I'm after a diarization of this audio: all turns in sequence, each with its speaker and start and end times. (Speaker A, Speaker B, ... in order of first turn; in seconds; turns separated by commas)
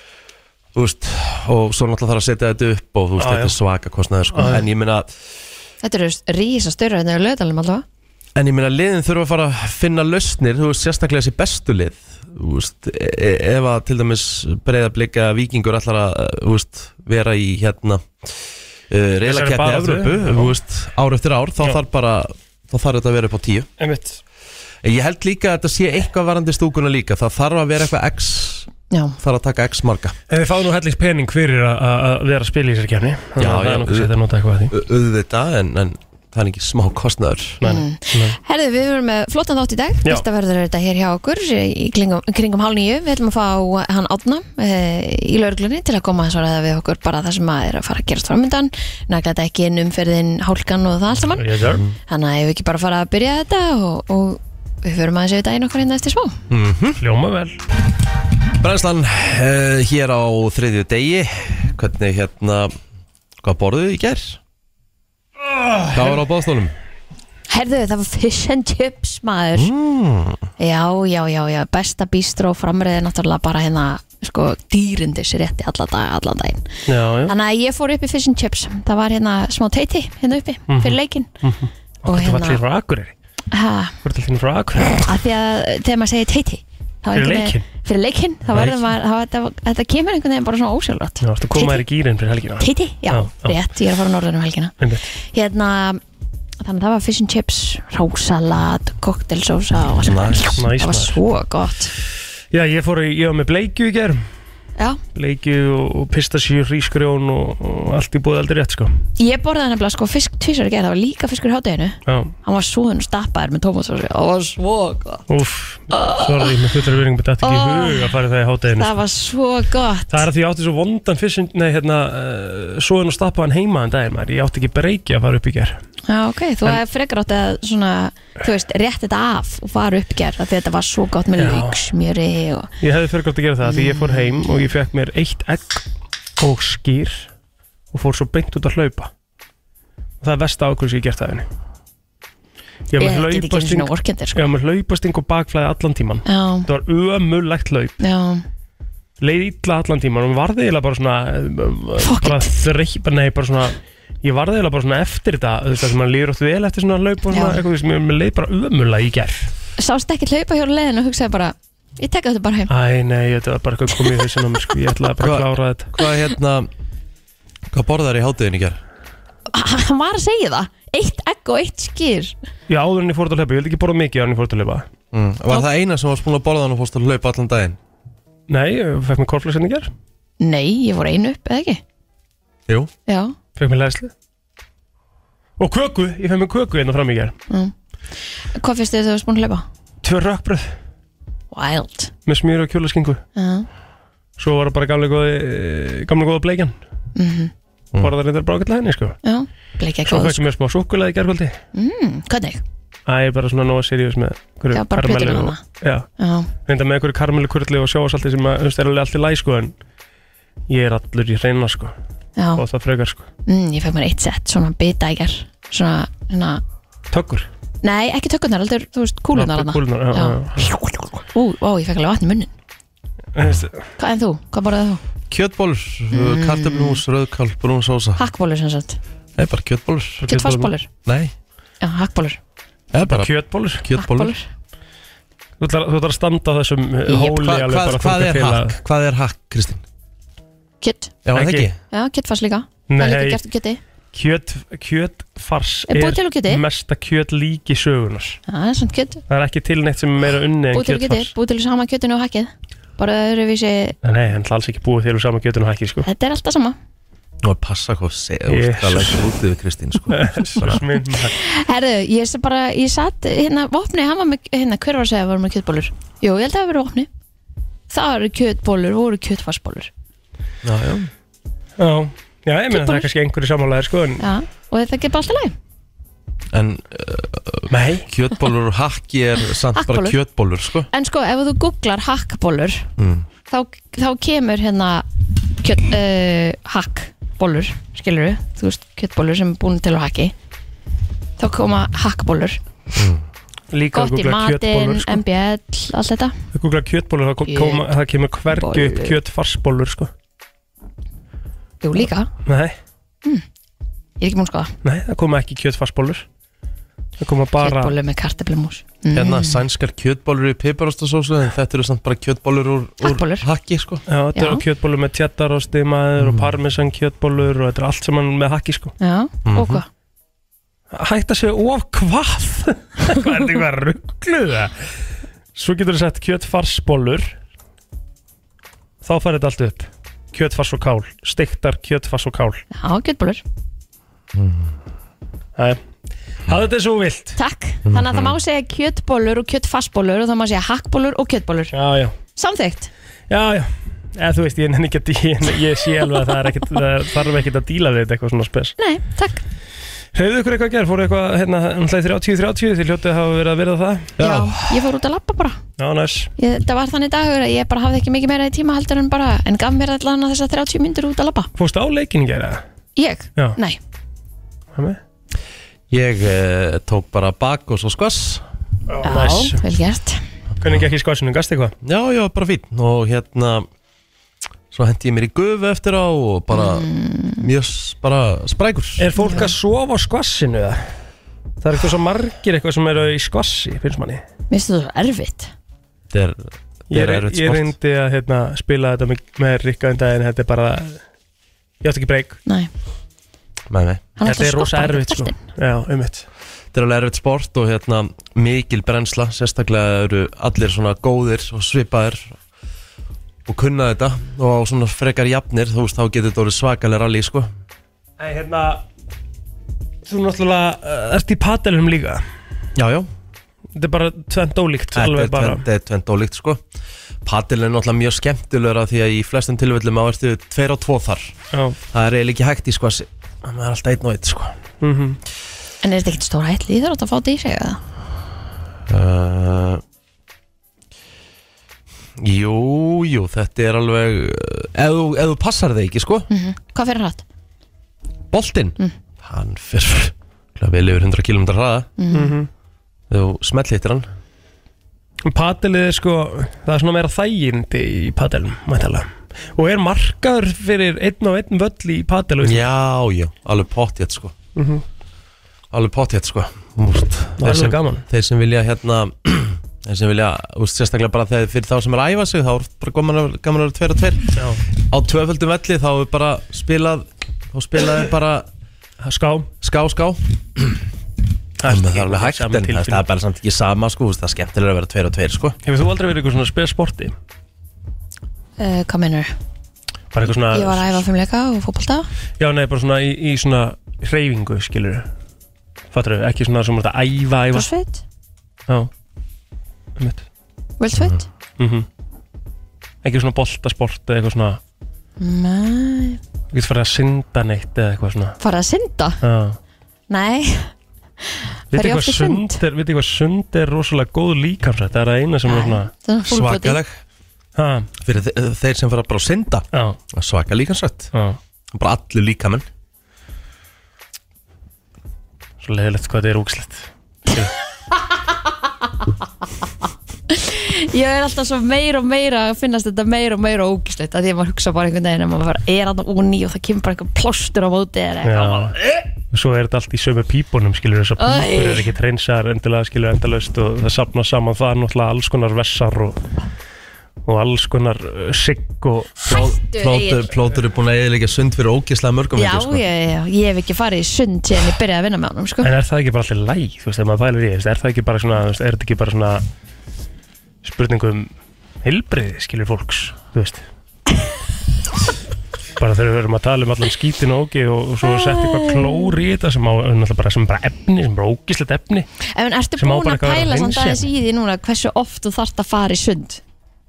Speaker A: 0.7-5.1, Speaker B: 3.2-3.6, Speaker B: 4.3-4.6, Speaker C: 5.8-7.8, Speaker A: 8.4-18.3, Speaker A: 18.9-23.7, Speaker B: 19.2-20.6, Speaker B: 23.8-24.2, Speaker A: 24.8-28.7, Speaker C: 28.9-29.2, Speaker A: 29.2-30.1, Speaker B: 30.3-34.7, Speaker A: 33.4-34.1, Speaker A: 34.7-37.6, Speaker B: 37.6-38.4, Speaker C: 37.6-51.5, Speaker B: 51.3-51.8, Speaker A: 51.6-52.0, Speaker C: 52.1-56.4, Speaker A: 56.5-57.0, Speaker B: 57.0-57.6, Speaker A: 58.6-62.7, Speaker A: 63.4-64.4, Speaker B: 65.4-66.2, Speaker A: 65.9-66.8, Speaker C: 67.5-69.7, Speaker A: 69.6-70.4, Speaker C: 70.6-76.7, Speaker B: 76.9-77.3, Speaker C: 77.3-81.3, Speaker B: 80.7-83.2, Speaker C: 82.1-82.6, Speaker C: 83.5-83.9, Speaker B: 84.0-85.1, Speaker C: 85.0-91.8, Speaker B: 87.1-87.6, Speaker B: 91.2-93.6, Speaker C: 92.6-96.0, Speaker B: 94.8-95.1, Speaker C: 96.6-101.9, Speaker A: 100.0-100.6, Speaker B: 100.5-101.2, Speaker B: 102.5-104.2, Speaker B: 105.2-108.9, Speaker C: 109.2-115.2, Speaker B: 112.1-112.3, Speaker B: 115.3-119.0, Speaker C: 115.9-116.5, Speaker C: 117.4-118.1, Speaker C: 118.7-120.3, Speaker B: 120.1-125.8, Speaker C: 126.1-132.7, Speaker B: 131.4-131.8, Speaker B: 132.8-135.8, Speaker C: 133.6-134.6, Speaker B: 136.4-137.3, Speaker B: 137.9-139.1, Speaker B: 140.2-141.5, Speaker B: 142.9-148.0, Speaker C: 143.0-144.5, Speaker C: 146.3-146.7, Speaker C: 148.0-148.4, Speaker B: 149.2-159.5, Speaker C: 152.0-152.5, Speaker C: 157.3-157.6, Speaker C: 159.8-162.7, Speaker B: 162.7-165.9, Speaker A: 165.2-166.7, Speaker A: 167.7-168.8, Speaker C: 169.5-172.3, Speaker B: 172.7-174.9, Speaker A: 175.1-177.8, Speaker B: 178.5-179.9, Speaker C: 180.4-181.8, Speaker C: 183.1-183.4, Speaker B: 183.6-184.1, Speaker B: 185.6-187.4, Speaker C: 188.5-189.7, Speaker B: 190.0-190.8, Speaker C: 191.5-192.1, Speaker B: 192.3-193.2, Speaker C: 193.4-193.7, Speaker B: 194.4-196.8, Speaker C: 197.2-197.5, Speaker B: 198.0-199.2, Speaker C: 199.2-200.4, Speaker B: 200.1-201.6, Speaker C: 201.7-202.6, Speaker B: 203.1-206.1, Speaker C: 204.7-205.6, Speaker C: 206.2-206.5, Speaker B: 206.7-209.7, Speaker B: 210.7-211.9, Speaker C: 212.4-212.6, Speaker B: 212.6-213.3, Speaker C: 213.5-216.6, Speaker B: 217.1-217.5, Speaker C: 217.8-222.5, Speaker B: 219.3-221.1, Speaker B: 223.3-223.8, Speaker C: 224.0-225.0, Speaker A: 225.3-228.2, Speaker C: 226.1-227.0, Speaker C: 228.2-229.0, Speaker A: 229.4-230.3, Speaker B: 230.2-230.7, Speaker C: 230.3-230.9, Speaker A: 231.1-231.3, Speaker C: 231.8-232.4, Speaker A: 232.9-234.3, Speaker B: 233.0-233.9, Speaker C: 233.9-234.5, Speaker B: 235.6-238.8, Speaker A: 237.1-239.8, Speaker C: 240.8-241.2, Speaker A: 241.2-241.8, Speaker B: 241.3-241.7, Speaker C: 241.9-243.8, Speaker B: 242.9-243.4, Speaker B: 244.1-248.4, Speaker C: 245.9-246.6, Speaker C: 248.5-249.2, Speaker B: 249.3-251.3, Speaker C: 250.7-254.0, Speaker B: 254.0-256.1, Speaker C: 256.0-256.8, Speaker A: 257.4-260.8, Speaker B: 258.5-259.3, Speaker B: 260.1-261.4, Speaker C: 261.1-267.1, Speaker C: 267.9-269.9, Speaker A: 270.6-271.1, Speaker B: 271.8-274.2, Speaker C: 272.7-273.1, Speaker C: 274.2-275.6, Speaker A: 276.5-280.9, Speaker B: 277.7-278.1, Speaker C: 279.7-280.2, Speaker C: 280.9-282.9, Speaker A: 283.0-283.3, Speaker C: 283.5-290.3, Speaker C: 291.4-292.6, Speaker A: 293.0-293.2, Speaker B: 293.7-295.2, Speaker C: 293.9-296.4, Speaker B: 296.5-300.1, Speaker C: 297.4-297.9, Speaker C: 298.5-299.2, Speaker C: 301.8-302.3, Speaker B: 302.5-302.8, Speaker C: 304.2-304.7, Speaker B: 304.8-306.2, Speaker B: 307.2-308.0, Speaker C: 307.6-309.6, Speaker A: 309.1-314.0, Speaker C: 313.0-313.5, Speaker B: 314.1-318.9, Speaker C: 314.4-314.6, Speaker A: 316.2-316.5, Speaker C: 319.0-319.9, Speaker A: 319.4-319.8, Speaker B: 320.9-324.7, Speaker B: 325.6-327.4, Speaker B: 329.0-332.6, Speaker C: 332.7-333.4, Speaker A: 334.3-334.7, Speaker B: 336.5-337.4, Speaker C: 337.4-341.7, Speaker A: 337.9-338.4, Speaker B: 341.7-342.1, Speaker C: 342.4-342.9, Speaker B: 343.3-348.7, Speaker C: 348.8-349.4, Speaker B: 350.1-354.2, Speaker A: 354.2-354.9, Speaker C: 354.2-355.6, Speaker B: 355.8-356.3, Speaker C: 356.4-361.5, Speaker B: 361.6-362.6, Speaker C: 363.0-363.8, Speaker B: 364.8-365.0, Speaker A: 365.9-368.4, Speaker B: 368.9-369.6, Speaker C: 369.0-370.2, Speaker B: 370.6-371.8, Speaker A: 371.8-373.7, Speaker A: 374.7-379.1, Speaker C: 376.5-377.5, Speaker B: 379.0-380.9, Speaker C: 379.2-379.5, Speaker B: 381.6-384.2, Speaker C: 384.5-385.5, Speaker A: 386.1-387.7, Speaker B: 386.9-391.0, Speaker B: 391.8-392.4, Speaker A: 393.7-394.1, Speaker C: 394.2-395.4, Speaker B: 394.2-396.2, Speaker A: 396.7-402.4, Speaker A: 403.5-407.5, Speaker B: 408.2-408.8, Speaker B: 410.1-412.2, Speaker A: 412.8-413.1, Speaker B: 413.8-415.6, Speaker A: 414.9-416.6, Speaker A: 417.2-421.3, Speaker B: 421.5-421.8, Speaker A: 421.9-424.6, Speaker B: 424.8-425.2, Speaker C: 425.8-427.8, Speaker A: 428.9-429.8, Speaker A: 432.2-436.3, Speaker C: 436.3-437.2, Speaker A: 438.3-441.9, Speaker C: 442.0-442.4, Speaker B: 442.1-442.5, Speaker A: 443.1-444.1, Speaker B: 445.3-452.6, Speaker A: 452.4-454.3, Speaker B: 454.6-454.8, Speaker A: 455.7-468.5, Speaker B: 457.4-458.1, Speaker B: 464.4-464.6, Speaker B: 469.0-469.5, Speaker A: 469.6-470.8, Speaker B: 471.6-473.0, Speaker A: 471.6-475.6, Speaker B: 475.6-477.1, Speaker C: 478.6-479.3, Speaker B: 480.1-481.0, Speaker C: 480.5-482.1, Speaker B: 482.4-485.1, Speaker B: 485.9-487.7, Speaker C: 487.5-488.0, Speaker B: 490.0-490.2, Speaker C: 490.8-491.3, Speaker B: 491.6-491.9, Speaker B: 493.0-494.6, Speaker C: 495.2-496.2, Speaker B: 496.5-498.4, Speaker C: 498.4-499.2, Speaker B: 499.2-499.6, Speaker C: 500.1-502.6, Speaker B: 501.7-505.9, Speaker C: 505.5-506.8, Speaker A: 506.3-507.0, Speaker B: 507.6-507.9, Speaker A: 508.0-511.1, Speaker B: 509.7-510.0, Speaker B: 511.1-511.4, Speaker A: 511.7-512.7, Speaker B: 515.6-517.5, Speaker C: 520.3-529.0, Speaker B: 528.2-528.8, Speaker B: 529.3-536.2, Speaker C: 531.2-531.9, Speaker B: 537.3-539.3, Speaker A: 539.3-542.8, Speaker C: 539.3-540.3, Speaker C: 542.4-545.7, Speaker B: 545.6-549.5, Speaker B: 550.6-551.3, Speaker B: 551.8-553.6, Speaker B: 555.8-562.1, Speaker C: 558.0-559.2, Speaker C: 562.2-566.4, Speaker B: 562.8-564.1